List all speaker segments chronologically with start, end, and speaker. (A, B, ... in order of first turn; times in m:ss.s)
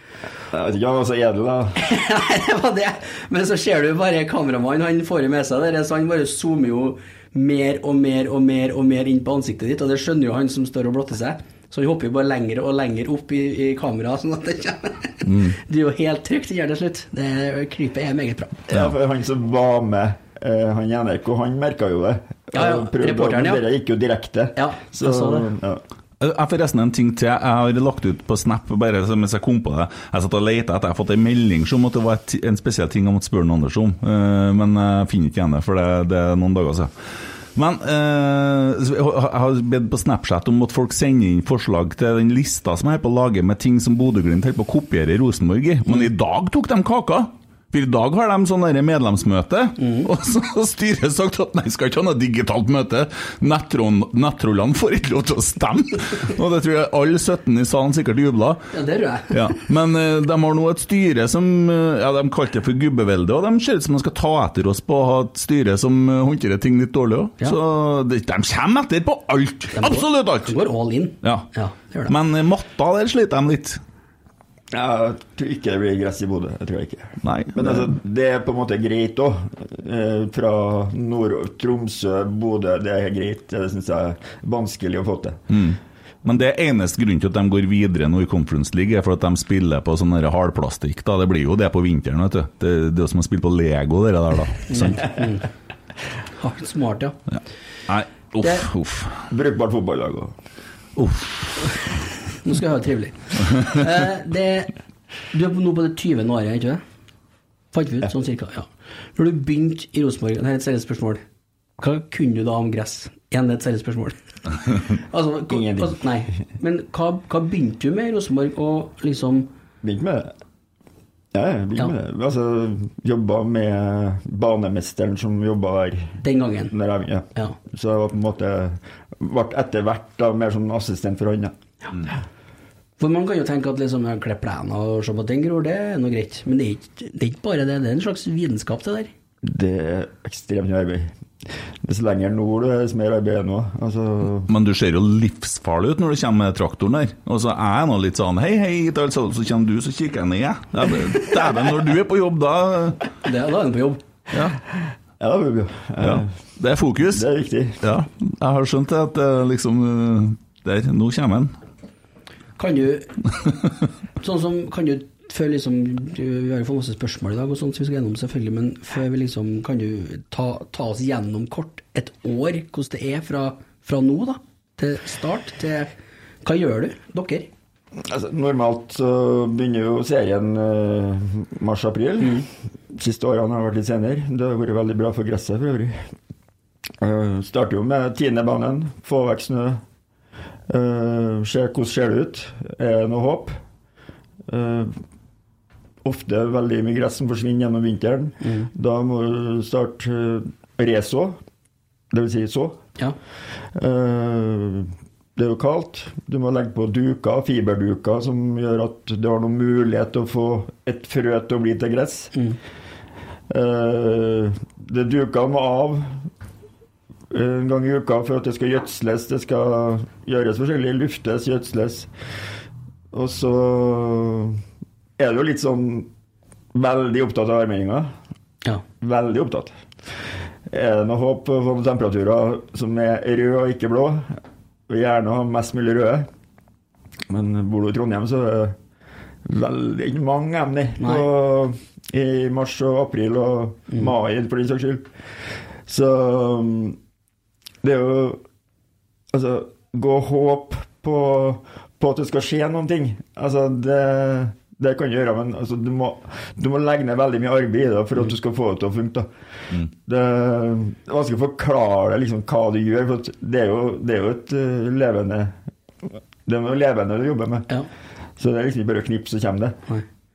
0:00.5-0:01.8 A
0:01.8-0:18.6 B
0:15.2-0:15.6 C
0:18.7-0:25.8 A
0:22.5-0:23.6 B
0:24.6-0:25.5 B
0:26.2-0:58.7 C
0:49.8-0:50.1 B
0:58.7-0:59.6 B
0:59.3-1:10.6 C
1:09.8-1:12.1 B
1:11.2-1:11.5 C
1:12.1-1:13.8 C
1:14.7-1:25.4 A
1:17.2-1:17.9 C
1:25.5-1:35.1 C
1:34.7-1:35.5 B
1:36.4-1:37.2 B
1:37.3-1:39.3 C
1:39.3-1:40.4 A
1:41.0-1:41.9 C
1:42.4-1:44.7 B
1:45.3-1:46.8 B
1:47.7-1:51.2 B
1:51.8-1:54.2 B
1:54.7-1:59.5 B
1:55.5-1:56.0 A
1:59.8-2:00.3 A
2:01.3-2:11.6 A
2:06.2-2:06.7 B
2:13.0-2:19.1 B
2:19.4-2:24.5 A
2:24.5-2:33.1 C
2:33.2-2:34.0 B
2:34.3-2:34.6 C
2:35.2-2:36.3 A
2:36.0-2:37.3 C
2:37.1-2:37.8 A
2:37.8-2:41.6 C
2:42.6-2:43.2 B
2:44.2-2:55.9 B
2:56.4-2:57.5 B
2:58.0-3:06.1 A
3:07.0-3:09.8 A
3:10.7-3:13.6 A
3:14.5-3:15.0 A
3:16.0-3:21.4 A
3:18.4-3:18.7 B
3:22.1-3:22.9 A
3:23.7-3:32.3 A
3:33.5-3:36.3 A
3:37.3-3:42.1 A
3:43.1-3:44.6 A
3:45.2-3:46.1 A
3:46.7-3:48.2 A
3:49.0-3:49.8 A
3:50.7-3:56.3 A
3:57.3-3:58.8 A
3:59.4-4:07.0 A
4:01.0-4:01.3 B
4:07.8-4:08.4 A
4:09.3-4:19.3 A
4:20.0-4:27.7 A
4:28.4-4:29.8 A